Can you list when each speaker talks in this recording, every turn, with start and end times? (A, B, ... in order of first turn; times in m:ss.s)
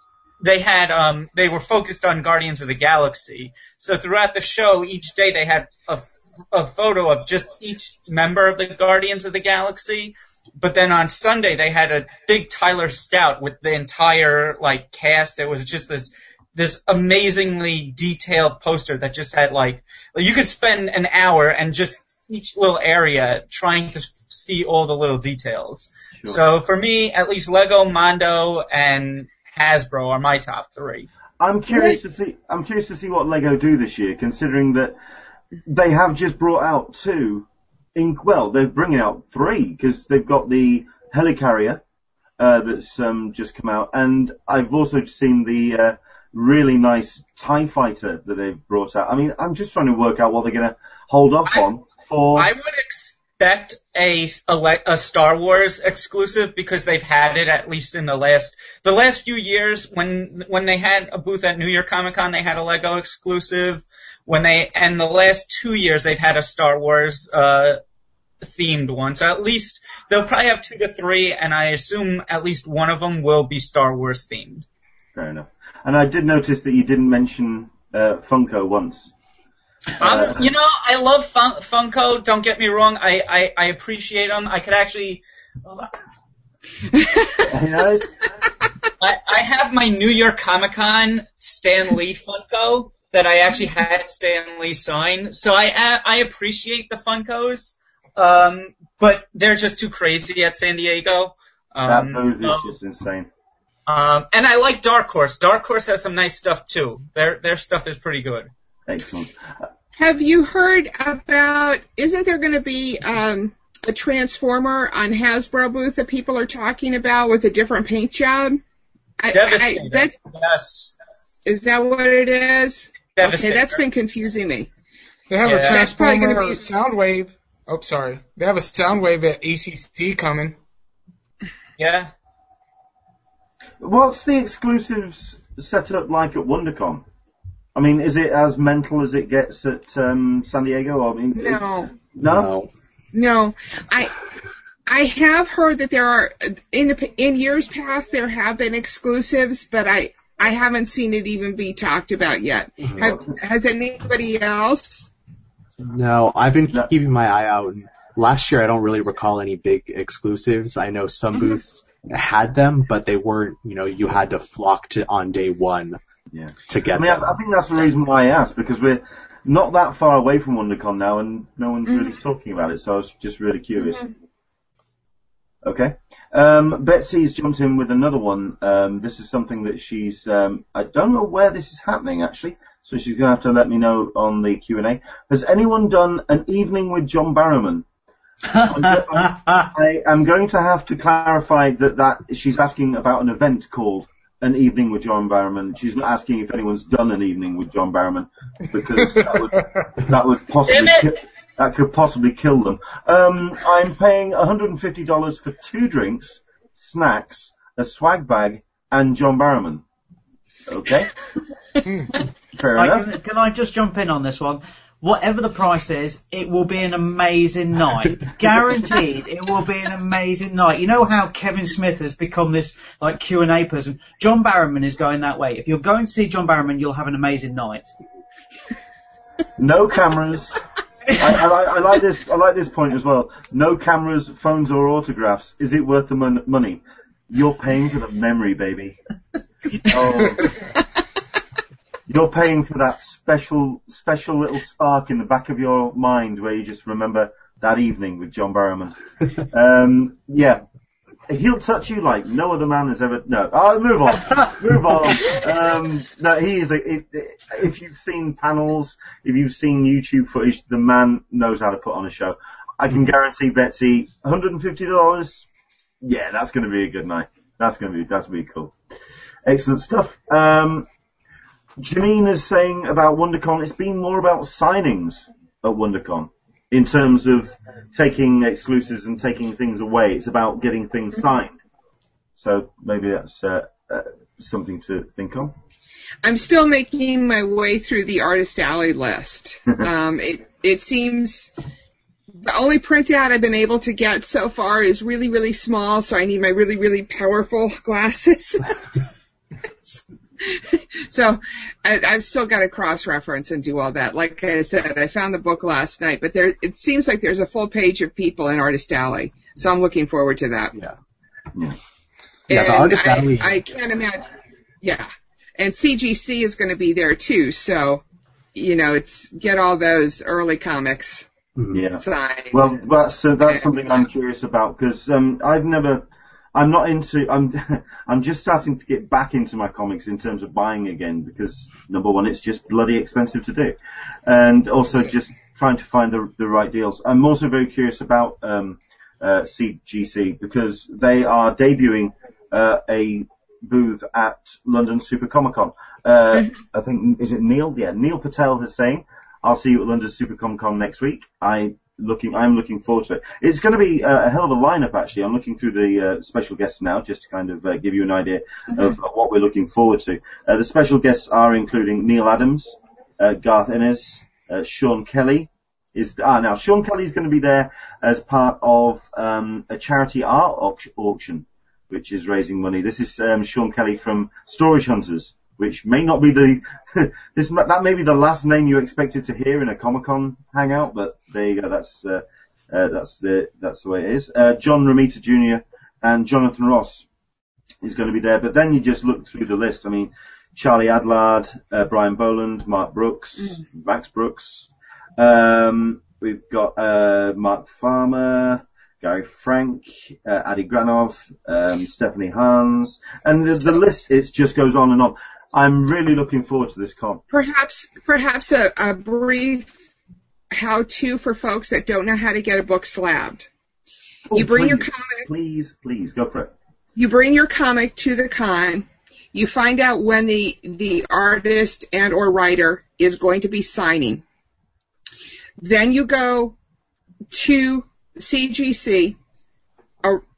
0:00.4-0:31.1 A
0:31.4-0:35.0 B
0:35.6-0:41.8 B
0:42.4-0:52.5 B
0:52.3-1:07.8 A
1:08.4-1:14.6 A
1:15.1-1:19.1 B
1:20.0-1:20.4 B
1:20.0-1:25.9 A
1:26.9-1:27.5 C
1:27.4-1:28.1 B
1:29.0-1:42.7 A
1:41.8-1:43.3 B
1:43.9-1:48.5 A
1:48.9-1:49.3 B
1:50.0-1:58.6 C
1:59.2-2:00.1 C
1:59.3-2:00.9 A
2:01.4-2:04.7 C
2:03.2-2:03.8 A
2:05.3-2:10.6 D
2:05.4-2:05.8 A
2:05.7-2:06.6 C
2:11.8-2:12.1 A
2:13.8-2:17.0 B
2:17.7-2:22.5 B
2:21.4-2:21.9 C
2:22.3-2:22.7 E
2:23.1-2:24.1 C
2:24.9-2:35.1 C
2:32.8-2:33.1 E
2:35.8-2:46.0 E
2:46.3-2:54.0 B
2:46.7-2:47.3 E
2:53.8-2:54.1 C
2:55.6-3:07.8 B
3:08.5-3:09.7 F
3:08.6-3:29.8 B
3:19.0-3:19.8 D
3:20.7-3:21.1 A
3:30.7-3:31.1 B
3:31.8-3:32.2 D
3:32.6-3:33.1 B
3:32.8-3:47.9 F
3:49.6-3:50.6 B
3:51.2-3:59.0 B
3:59.8-4:00.6 B
4:02.1-4:10.6 B
4:11.3-4:25.5 B
4:26.0-4:28.7 B
4:29.4-4:30.9 B
4:31.8-4:41.5 B
4:42.4-4:45.5 B
4:46.2-4:51.5 C
4:52.4-4:58.7 C
4:59.8-5:10.7 C
5:12.5-5:14.3 C
5:12.5-5:13.6 E
5:14.8-5:18.0 C
5:18.5-5:21.2 C
5:21.6-5:21.8 E
5:21.7-6:27.0 B
5:21.9-5:22.6 C
6:27.8-6:47.2 B
6:47.3-6:49.7 C
6:50.5-6:53.5 C
6:54.3-6:56.5 B
6:54.3-6:55.3 C
6:57.0-7:04.2 C
7:05.6-7:06.5 C
7:07.3-7:09.2 C